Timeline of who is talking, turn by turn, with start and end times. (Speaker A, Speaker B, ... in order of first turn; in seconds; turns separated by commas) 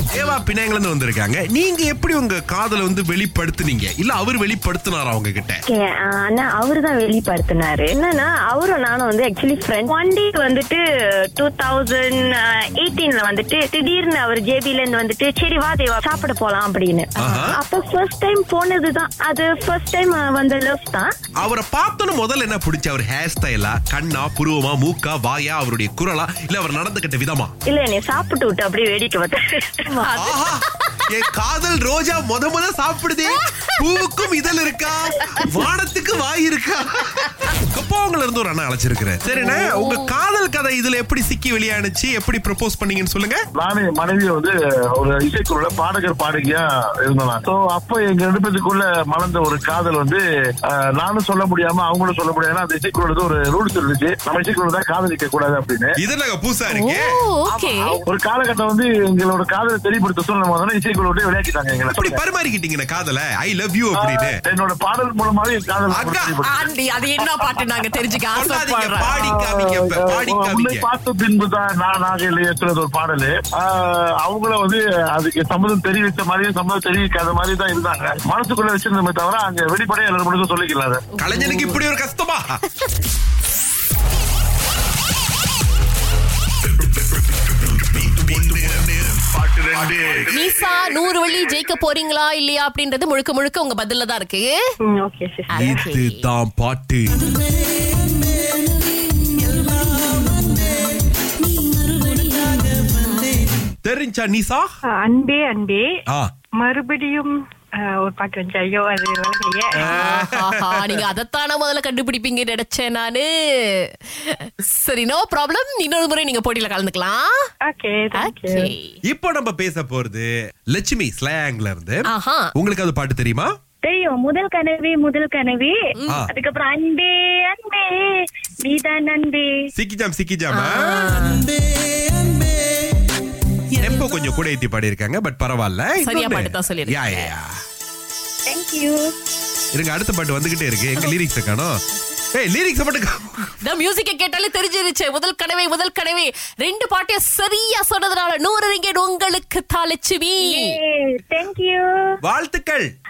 Speaker A: 0.1-5.6, Speaker B: 5.7-10.8, Speaker B: 11.4-21.1, Speaker C: 17.2-17.5, Speaker A: 17.2-17.6, Speaker A: 21.4-27.5, Speaker B: 27.6-30.1, Speaker C: 29.9-30.5, Speaker A: 30.2-43.5, Speaker C: 35.2-35.5, Speaker C: 39.3-40.1, Speaker D: 43.5-56.0, Speaker A: 56.0-57.0, Speaker C: 56.7-58.0, Speaker D: 58.1-62.2, Speaker A: 61.9-64.3, Speaker D: 64.0-66.6, Speaker A: 65.9-66.3, Speaker C: 66.4-69.1, Speaker A: 68.3-70.9, Speaker D: 69.1-81.0, Speaker C: 81.2-81.8, Speaker A: 81.2-82.6, Speaker A: 87.7-90.2, Speaker C: 90.3-94.5, Speaker E: 94.9-95.7, Speaker C: 95.5-96.3, Speaker A: 95.6-97.3, Speaker E: 101.9-102.4, Speaker A: 103.8-104.7, Speaker E: 105.0-105.8, Speaker E: 106.6-107.3, Speaker E: 108.0-109.9, Speaker A: 109.8-111.0, Speaker C: 109.8-117.3, Speaker E: 117.7-118.7, Speaker C: 118.2-119.0, Speaker A: 119.1-123.5, Speaker C: 122.1-122.5, Speaker F: 123.8-125.8, Speaker C: 125.9-126.2, Speaker F: 126.3-128.0, Speaker F: 128.6-129.5, Speaker A: 129.8-131.2, Speaker C: 130.5-131.5, Speaker A: 133.8-137.5, Speaker C: 136.0-137.3, Speaker F: 138.5-139.0, Speaker A: 139.7-141.7, Speaker A: 142.3-143.5, Speaker C: 143.6-150.7, Speaker F: 150.4-151.8, Speaker A: 152.2-152.9